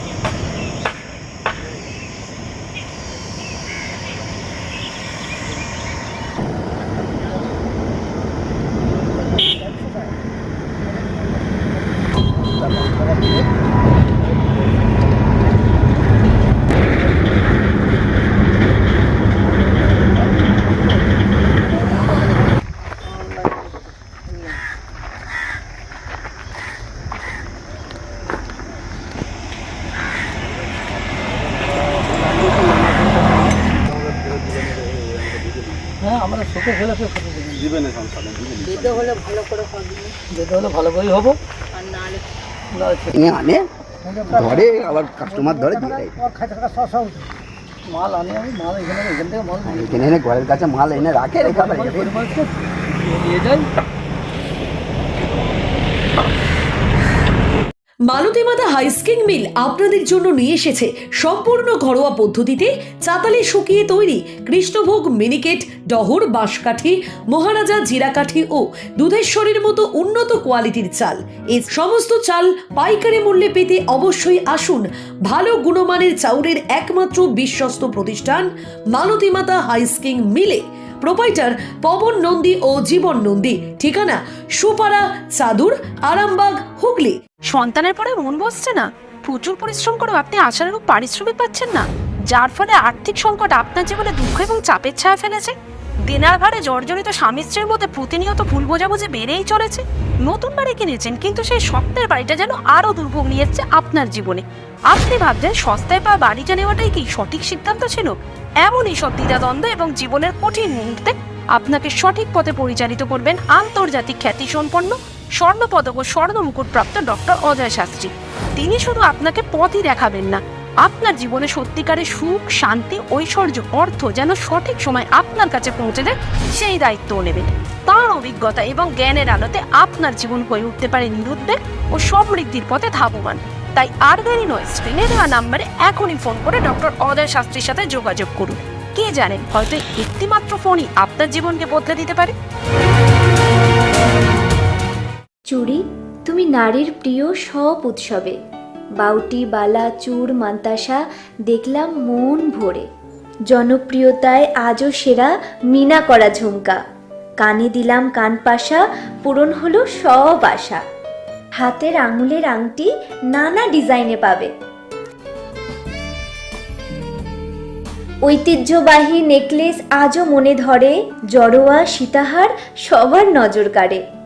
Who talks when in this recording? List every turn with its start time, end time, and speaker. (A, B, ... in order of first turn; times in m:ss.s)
0:36.0-0:37.8 A
0:40.3-0:41.4 A
0:42.7-0:43.1 A
0:43.1-0:43.6 B
0:44.2-0:46.2 B
0:47.9-0:50.1 A
0:49.7-0:52.2 B
0:51.4-0:53.7 A
0:58.1-1:27.2 C
1:27.5-1:35.6 D
1:36.1-2:22.3 D
2:25.5-2:28.4 E
2:29.0-2:32.9 E
2:33.5-2:36.8 E
2:37.4-2:40.8 E
2:41.6-2:44.5 E
2:48.3-2:54.0 E